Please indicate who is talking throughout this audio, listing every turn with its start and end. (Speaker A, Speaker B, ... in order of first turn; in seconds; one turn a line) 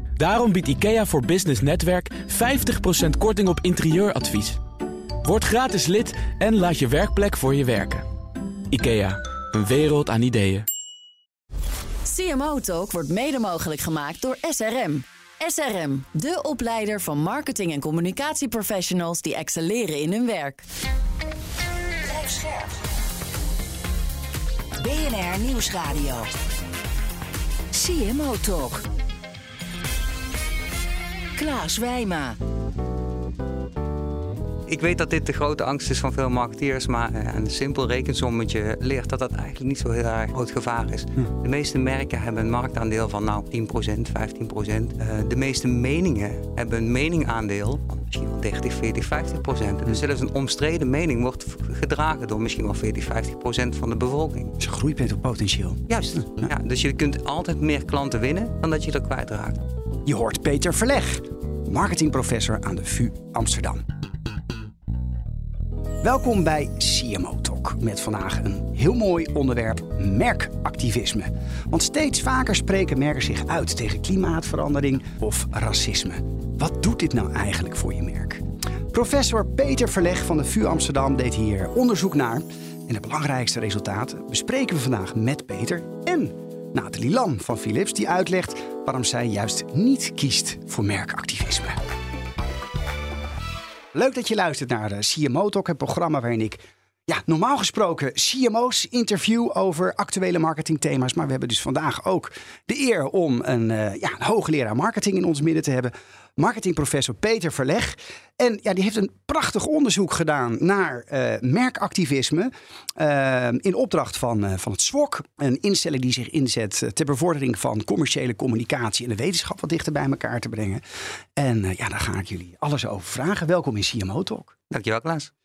Speaker A: 0.1-4.6
Speaker A: 5.2-8.1
Speaker A: 8.7-10.7
Speaker B: 12.1-20.6
Speaker C: 22.1-22.7
Speaker C: 24.8-26.3
Speaker C: 27.7-28.8
Speaker C: 31.4-32.4
Speaker D: 34.7-54.5
Speaker E: 54.6-56.5
Speaker D: 55.9-59.6
Speaker E: 60.0-63.8
Speaker E: 66.0-91.8
Speaker E: 93.9-120.8
Speaker E: 121.4-124.5
Speaker D: 124.7-125.3